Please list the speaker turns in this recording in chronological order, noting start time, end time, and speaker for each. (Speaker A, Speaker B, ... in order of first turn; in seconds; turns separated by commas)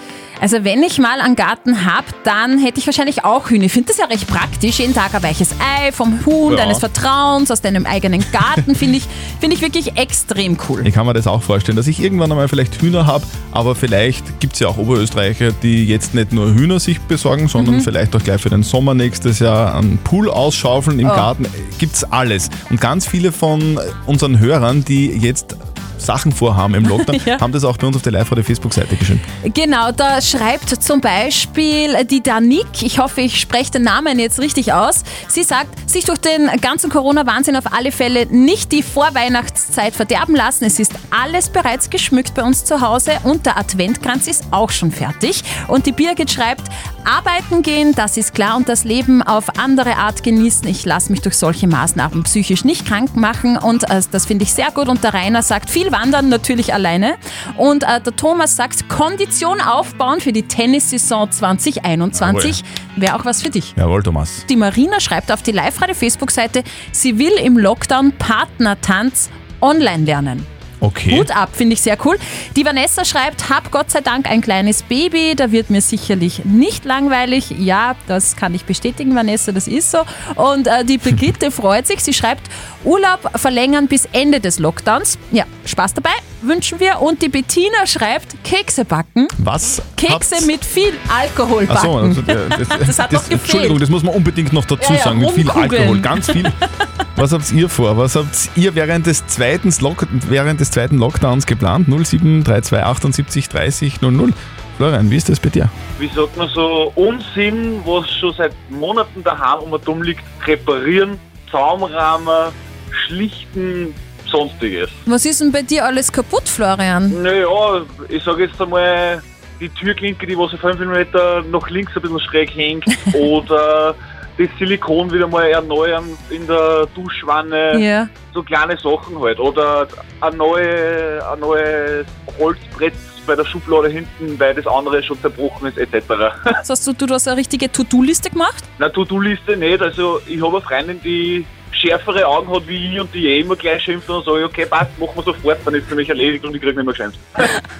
Speaker A: 0.4-10.9, Speaker B: 6.5-6.8, Speaker B: 10.8-29.2, Speaker A: 17.6-17.9, Speaker A: 21.0-21.3, Speaker A: 26.9-27.4, Speaker A: 29.4-63.7, Speaker B: 62.1-62.6, Speaker B: 63.8-64.4, Speaker A: 64.5-70.5, Speaker B: 70.8-71.3, Speaker A: 71.1-89.3, Speaker B: 89.4-90.5, Speaker A: 90.0-93.8, Speaker B: 91.7-96.6, Speaker A: 94.8-96.5, Speaker B: 97.2-105.7, Speaker C: 106.0-115.0, Speaker A: 115.1-117.2, Speaker C: 117.1-136.5, Speaker A: 127.7-128.1, Speaker A: 136.6-138.7, Speaker C: 138.8-147.5